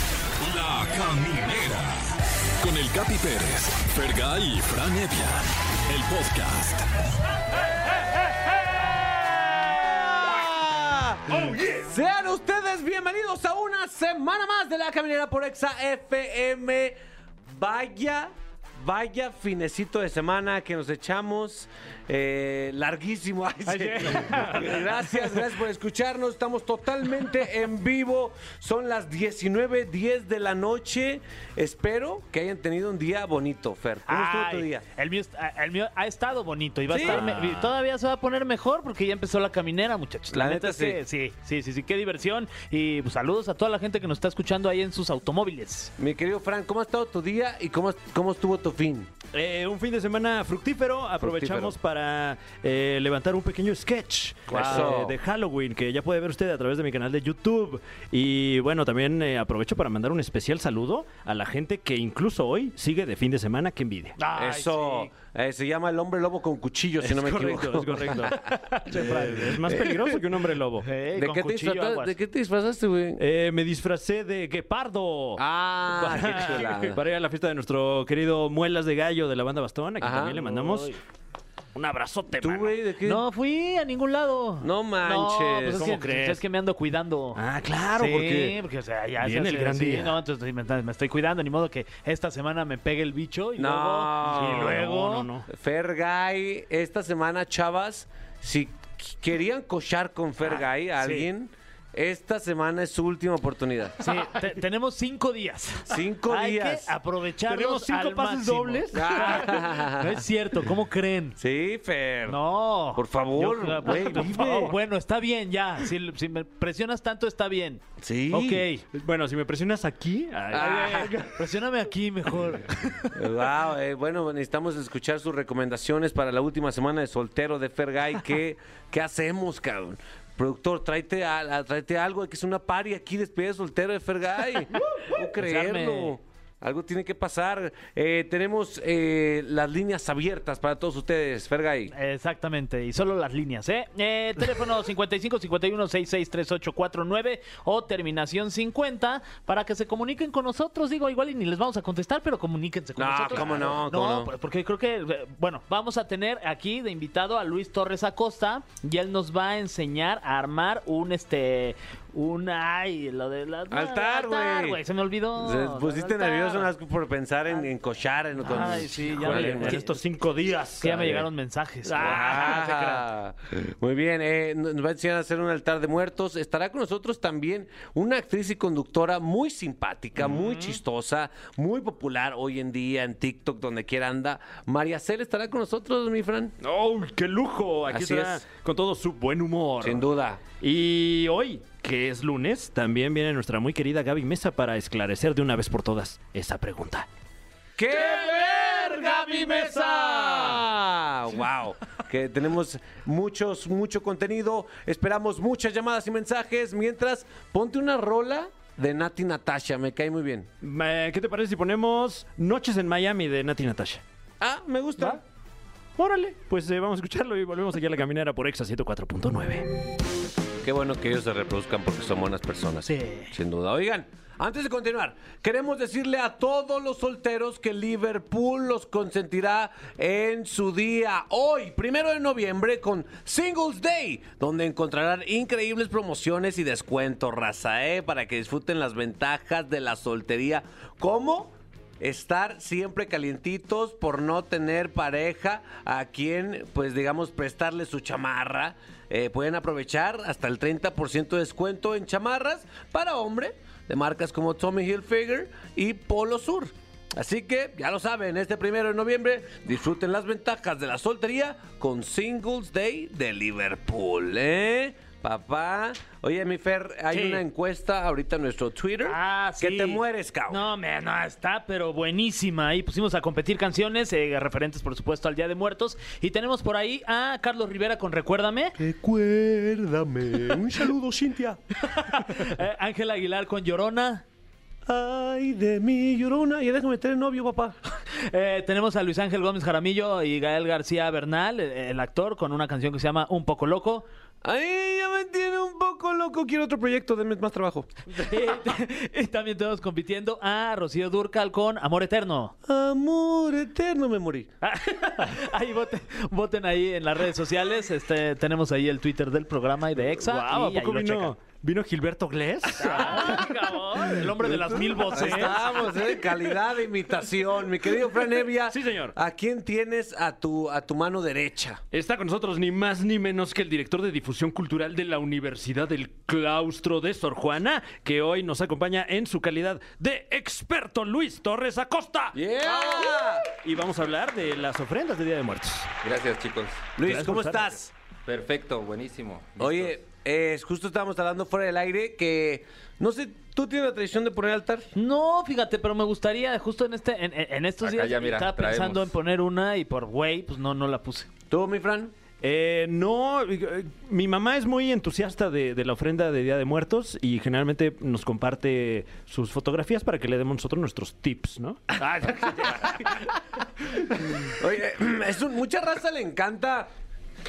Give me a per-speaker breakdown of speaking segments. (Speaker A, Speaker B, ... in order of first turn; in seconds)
Speaker A: 0.4-2.0, 2.6-6.9
Speaker B: 8.8-34.9, 36.9-37.3, 40.3-41.0, 46.0-49.1, 51.2-51.7, 54.5-55.1, 64.3-68.4, 69.0-70.2, 71.1-73.2, 75.4-77.0, 80.0-80.4, 82.4-83.2, 84.6-86.0, 93.6-94.8, 95.5-104.0, 105.9-106.9, 108.9-110.2, 111.4-112.4, 112.9-114.7, 118.0-118.6, 120.5-121.2, 123.1-141.9, 152.9-154.3, 163.7-164.8, 165.3-169.8, 171.9-186.5, 187.9-188.4, 189.8-190.4, 197.8-210.5, 214.4-215.2, 220.6-270.6, 278.8-281.6, 284.9-287.8, 294.4-298.6, 302.6-304.5, 315.1-321.8, 332.3-333.4, 337.0-337.9, 339.6-344.9, 351.5-352.1, 364.4-366.9
Speaker C: 23.7-24.8, 34.1-45.9, 54.5-54.9, 64.2-65.1, 68.9-69.5, 70.8-72.1, 80.6-80.9, 83.0-87.4, 87.9-95.3, 101.0-101.3, 104.0-111.4, 112.3-118.8, 120.5-123.0, 134.8-136.2, 141.9-166.7, 168.4-170.0, 170.8-173.1, 180.2-180.8, 222.8-223.3, 267.1-267.4, 269.1-278.8, 281.9-284.2, 288.1-294.0, 298.1-302.5, 304.6-311.4, 312.8-315.9, 344.9-351.3, 362.1-362.9
Speaker D: 23.8-24.8, 37.0-37.7, 49.3-64.2, 67.0-70.9, 73.2-75.4, 75.9-81.0, 81.7-82.7, 85.7-86.4, 87.3-88.6, 89.2-90.2, 94.5-95.5, 107.4-109.6, 118.9-121.3, 168.7-171.3, 171.9-172.2, 186.6-197.1, 210.6-214.0, 216.0-219.7, 310.1-315.8, 318.7-319.1, 321.9-335.9, 337.0-337.7, 352.4-362.4
Speaker E: 336.0-336.9, 338.2-339.9, 347.8-349.1